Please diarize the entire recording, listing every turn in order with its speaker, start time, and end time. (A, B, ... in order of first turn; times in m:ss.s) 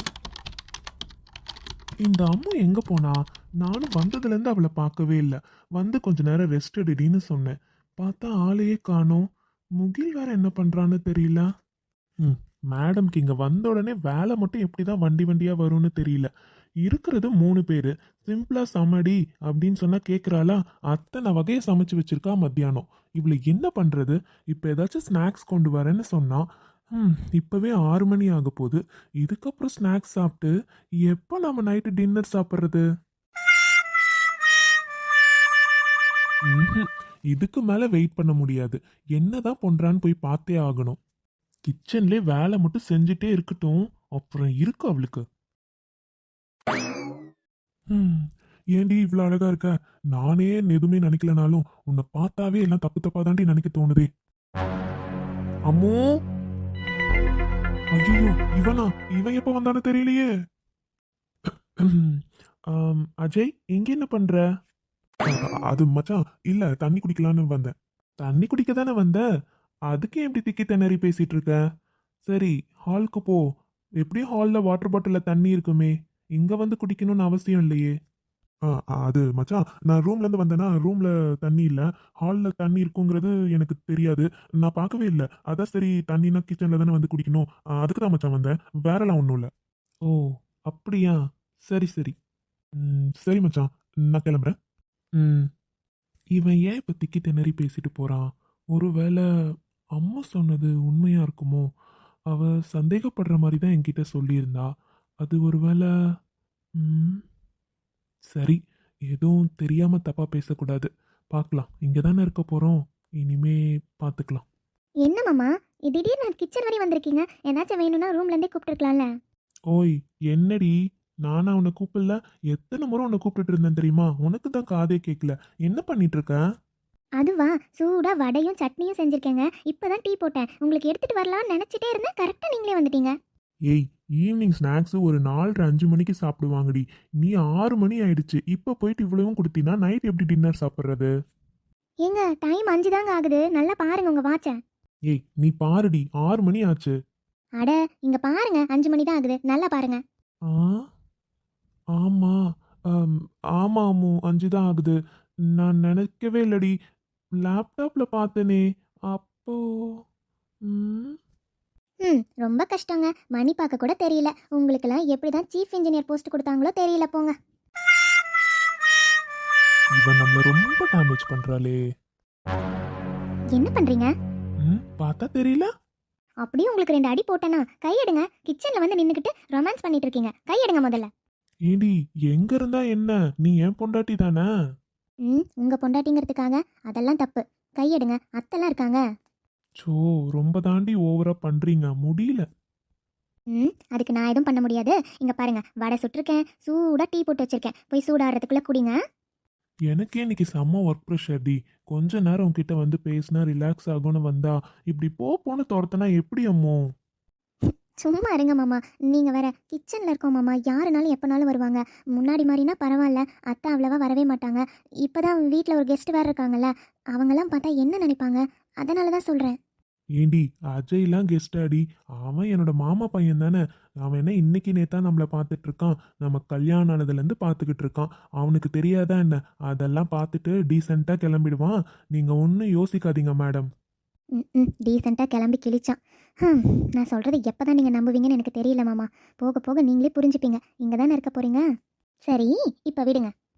0:02.0-0:09.2 A
0:09.8-0:11.5 A
0:12.2-0:16.3 A
0:16.8-0:30.5 A
0:31.0-0:32.9 A
0:36.5-0:41.0 A
0:41.7-0:45.2 A
0:47.9-0:54.1 A
0:55.7-0:56.0 A
0:58.0-1:00.3 A
1:01.5-1:04.4 A
1:05.3-1:09.2 A
1:09.9-1:11.6 A
1:12.3-1:13.4 A
1:14.0-1:17.9 A
1:18.7-1:29.5 A
1:30.0-1:31.2 A
1:31.7-1:32.1 A
1:32.8-1:34.5 A
1:35.2-1:35.5 A
1:36.4-1:39.2 A
1:40.0-1:41.7 A
1:42.3-1:44.7 A
1:45.2-1:45.9 A
1:46.8-1:47.2 A
1:48.3-1:54.4 A
1:55.0-1:59.1 B
1:59.7-2:06.4 A
2:07.2-2:13.1 B
2:13.7-2:21.1 A
2:22.0-2:24.6 B
2:25.1-2:26.9 A
2:27.6-2:30.0 B
2:30.5-2:30.8 A
2:32.0-2:32.4 A
2:32.9-2:35.0 A
2:35.6-2:36.8 A
2:37.4-2:40.0 A
2:40.7-2:41.2 A
2:42.0-2:47.3 B
2:50.0-2:51.8 A
2:53.6-2:54.1 B
2:54.6-2:55.7 A
2:56.4-3:01.1 B
3:01.7-3:04.5 A
3:05.3-3:09.0 B
3:09.8-3:12.4 A
3:13.5-3:19.0 B
3:19.9-3:26.8 A
3:27.6-3:39.6 B
3:40.2-3:53.7 A
3:54.4-4:01.6 B
4:02.3-4:03.3 B